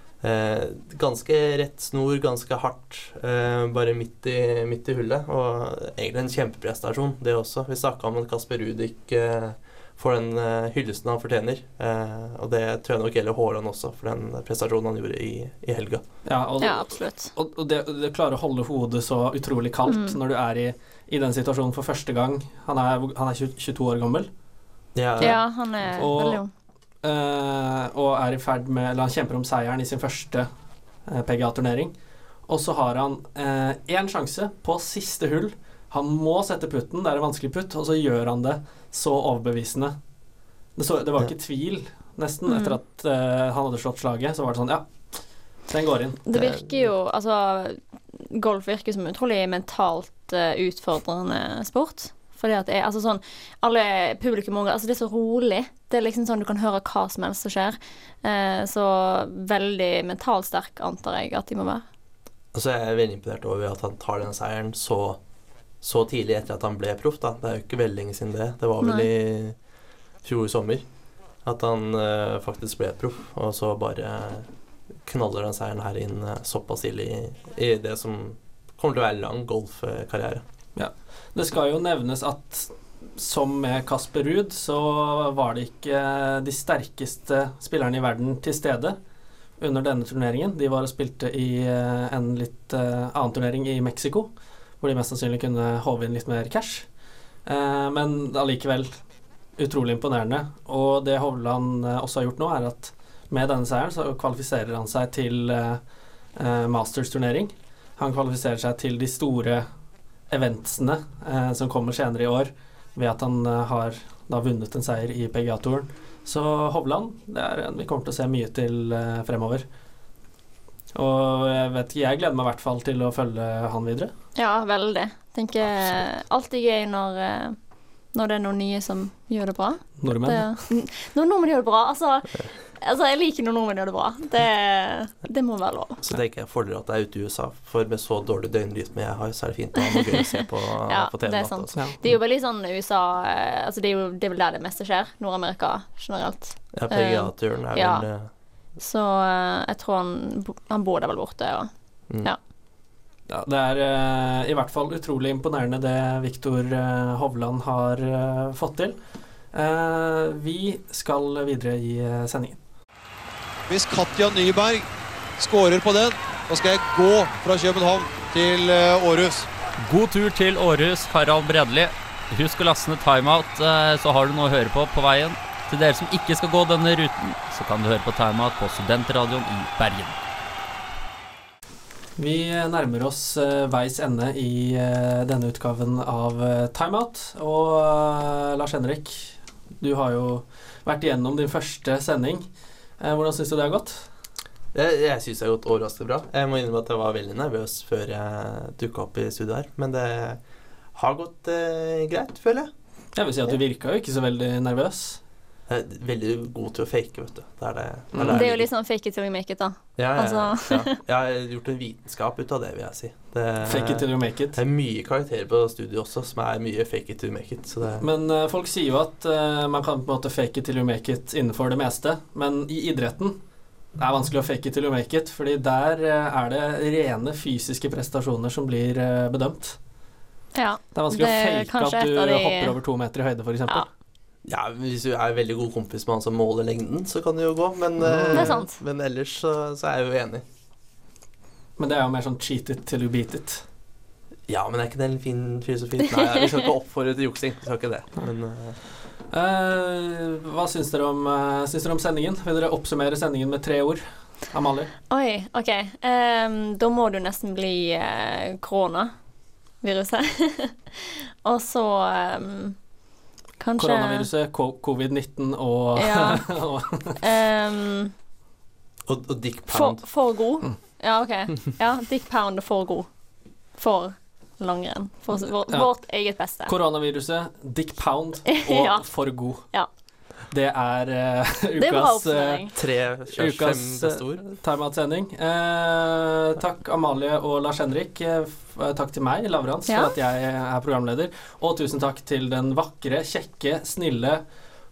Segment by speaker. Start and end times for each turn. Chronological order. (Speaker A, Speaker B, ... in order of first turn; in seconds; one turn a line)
Speaker A: 0.2-16.0
Speaker B: 16.3-24.3
Speaker C: 16.6-17.3
Speaker C: 19.9-20.2
Speaker A: 24.9-25.4
Speaker C: 25.2-26.5
Speaker B: 25.9-26.4
Speaker B: 27.0-30.5
Speaker B: 31.1-31.9
Speaker B: 32.5-40.0
Speaker B: 40.8-45.2
Speaker C: 42.5-42.8
Speaker B: 45.7-46.2
Speaker C: 46.3-61.8
Speaker A: 46.3-46.9
Speaker A: 62.5-65.2
Speaker A: 65.8-69.6
Speaker C: 68.8-69.1
Speaker A: 70.2-70.9
Speaker A: 71.4-74.5
Speaker A: 75.0-80.4
Speaker B: 80.8-89.0
Speaker B: 89.6-94.3
Speaker B: 94.8-96.9
Speaker B: 97.5-99.0
Speaker B: 99.6-105.8
Speaker B: 106.4-109.7
Speaker B: 110.3-119.7
Speaker B: 121.0-124.1
Speaker C: 124.4-127.6
Speaker C: 128.1-136.0
Speaker B: 130.0-130.6
Speaker A: 136.0-142.2
Speaker C: 139.8-140.2
Speaker C: 140.9-148.1
Speaker A: 146.7-148.3
Speaker C: 148.8-152.4
Speaker B: 153.3-159.0
Speaker B: 159.5-162.6
Speaker D: 163.7-164.9
Speaker D: 165.4-169.5
Speaker E: 169.8-180.2
Speaker B: 182.2-192.5
Speaker B: 193.0-194.1
Speaker A: 194.7-200.4
Speaker A: 200.9-202.7
Speaker B: 203.2-205.2
Speaker A: 205.7-208.7
Speaker B: 208.1-208.4
Speaker C: 208.3-211.0
Speaker A: 210.0-218.0
Speaker B: 213.6-214.6
Speaker B: 218.0-223.4
Speaker B: 224.0-229.8
Speaker C: 230.6-232.8
Speaker B: 230.9-233.9
Speaker A: 234.4-240.4
Speaker B: 238.0-238.6
Speaker C: 238.3-238.8
Speaker B: 241.8-243.7
Speaker A: 244.5-248.8
Speaker B: 249.3-254.9
Speaker C: 255.1-259.1
Speaker C: 259.8-262.8
Speaker C: 263.6-264.3
Speaker B: 263.8-267.2
Speaker C: 266.0-266.4
Speaker C: 267.2-268.1
Speaker A: 269.1-270.0
Speaker C: 269.7-273.1
Speaker C: 273.8-276.7
Speaker B: 276.7-279.7
Speaker C: 278.5-279.1
Speaker B: 280.5-282.6
Speaker C: 281.8-282.7
Speaker A: 282.8-284.4
Speaker B: 283.3-294.4
Speaker C: 289.9-290.1